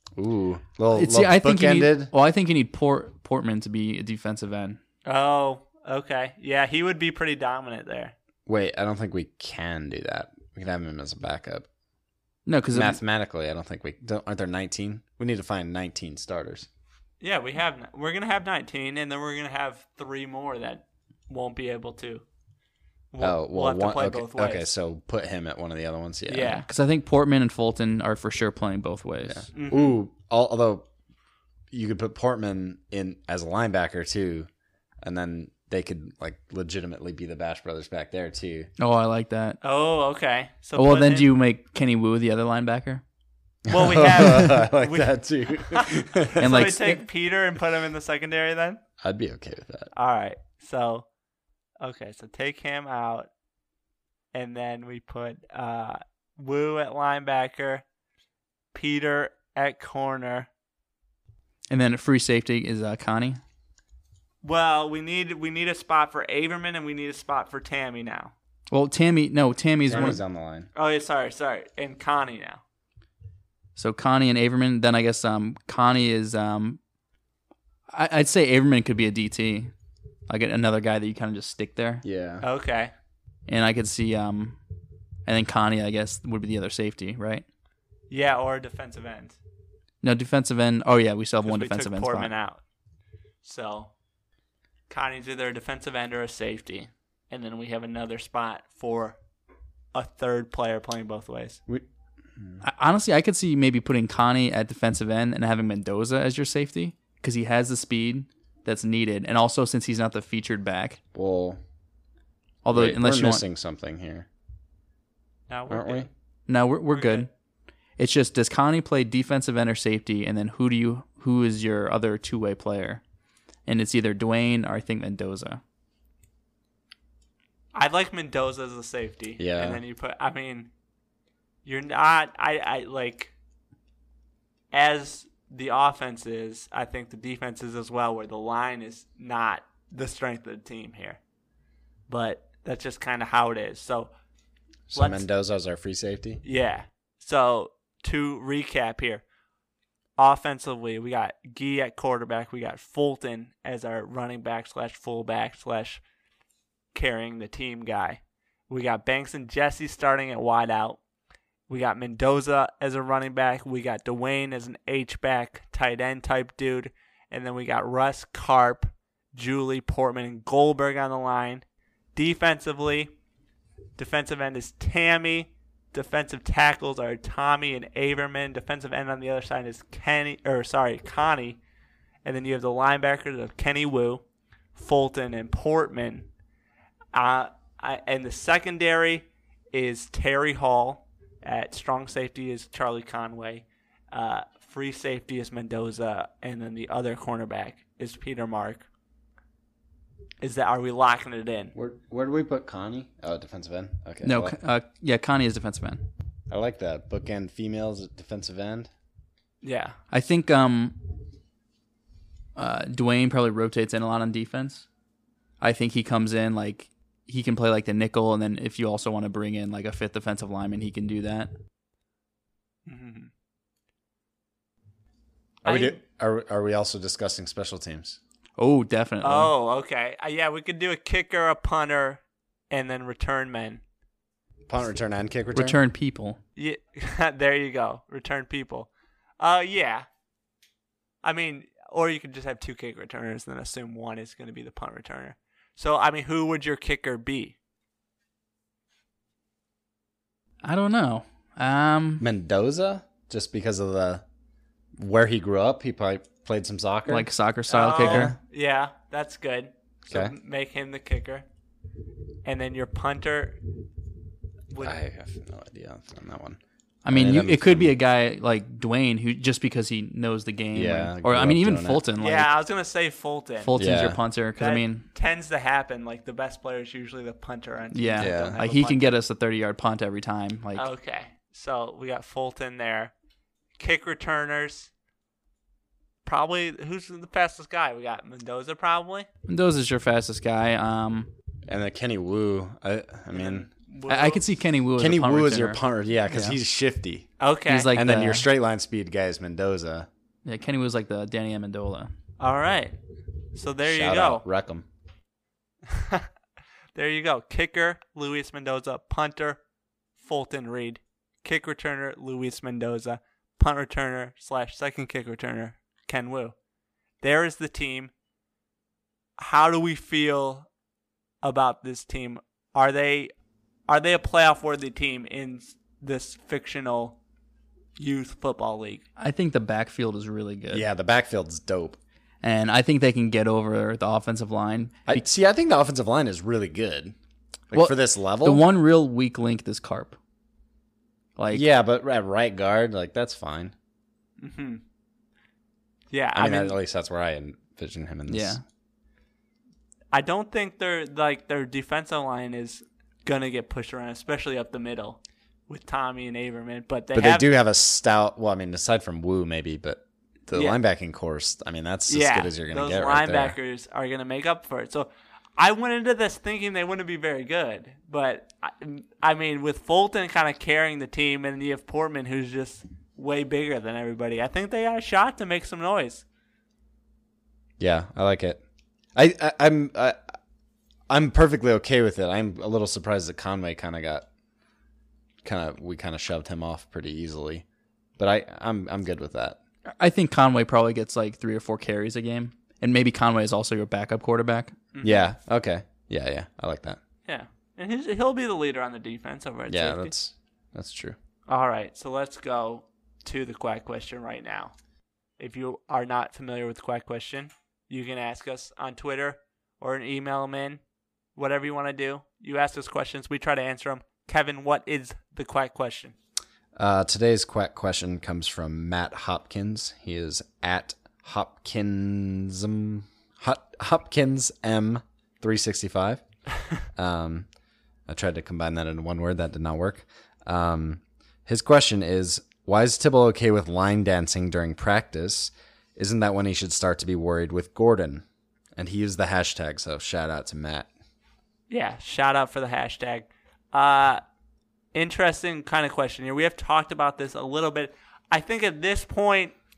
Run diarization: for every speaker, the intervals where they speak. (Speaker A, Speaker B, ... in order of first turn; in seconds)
Speaker A: 0.1-2.1, 8.4-11.7, 12.7-16.7, 23.2-26.6, 29.2-30.9, 31.7-34.5, 35.0-38.7, 43.7-46.6, 49.0-49.9, 69.9-70.7, 82.0-82.5, 102.4-102.6, 111.1-111.6, 112.7-114.3, 115.7-116.1, 129.4-129.8, 144.9-146.4, 201.7-204.6, 206.5-208.9, 225.6-228.2, 234.7-235.8, 252.2-254.2, 255.0-257.3, 257.9-258.4, 260.1-260.4, 264.8-268.0, 270.7-272.0, 273.8-274.2, 278.2-278.6, 291.6-293.7, 295.0-297.3, 297.9-300.1, 303.8-304.9, 330.7-332.0, 335.1-337.1, 337.7-338.6, 341.5-343.7, 346.3-348.6, 357.1-363.6, 377.8-378.6, 379.1-380.2, 381.1-384.2, 385.4-387.6, 388.2-389.6, 395.0-397.0, 399.7-401.2, 416.7-426.2, 426.9-427.5, 428.1-438.2, 438.8-440.9
Speaker B: 0.9-4.8, 12.5-13.0, 26.7-29.5, 38.8-39.6, 40.8-43.0, 46.4-47.0, 61.7-63.4, 68.7-70.2, 73.8-76.8, 77.9-79.7, 80.3-82.0, 83.5-84.6, 85.2-87.4, 90.0-92.3, 102.6-111.0, 112.6-113.4, 116.5-117.3, 118.0-123.0, 123.7-125.6, 204.2-206.1, 210.1-211.1, 212.6-214.8, 215.6-221.5, 228.6-229.5, 235.5-236.4, 250.6-252.2, 257.1-258.4, 267.0-272.5, 273.6-275.1, 277.9-280.9, 289.5-291.3, 294.1-296.6, 297.7-298.4, 300.4-302.1, 329.2-330.9, 332.4-335.2, 337.7-340.2, 341.4-341.6, 348.3-348.6, 390.0-394.8
Speaker C: 5.0-8.1, 17.2-22.2, 23.1-24.7, 26.3-26.7, 29.5-30.0, 39.6-41.3, 43.7-48.8, 49.9-51.0, 51.8-53.3, 54.3-57.8, 58.7-60.5, 64.4-68.3, 69.9-70.2, 70.7-72.6, 82.4-82.9, 88.1-89.4, 91.4-92.6, 93.4-93.9, 94.9-99.2, 99.9-101.6, 115.5-116.1, 116.9-117.3, 127.7-130.7, 131.6-133.3, 134.7-141.2, 142.1-144.1, 144.9-145.2, 146.4-149.2, 150.2-156.0, 156.9-161.0, 161.7-173.1, 173.9-181.6, 182.2-184.2, 184.7-186.3, 187.1-198.8, 200.4-201.7, 209.6-210.0, 222.8-223.3, 225.7-226.0, 229.2-233.8, 236.6-240.1, 241.2-247.6, 257.7-261.4, 262.4-263.6, 264.7-265.0, 272.2-273.8, 274.6-279.2, 280.7-283.1, 283.8-284.9, 286.2-289.3, 293.3-294.5, 297.4-297.9, 302.4-303.0, 303.5-304.4, 305.9-306.3, 306.9-309.6, 310.2-316.5, 317.2-318.1, 319.4-320.7, 321.4-323.3, 323.9-327.2, 327.9-329.1, 344.4-344.8, 346.1-346.8, 350.1-357.5, 360.5-360.8, 362.1-376.2, 394.9-395.3, 397.2-400.1, 401.5-404.7, 405.4-410.8, 411.4-416.1, 441.7-444.2, 444.9-449.6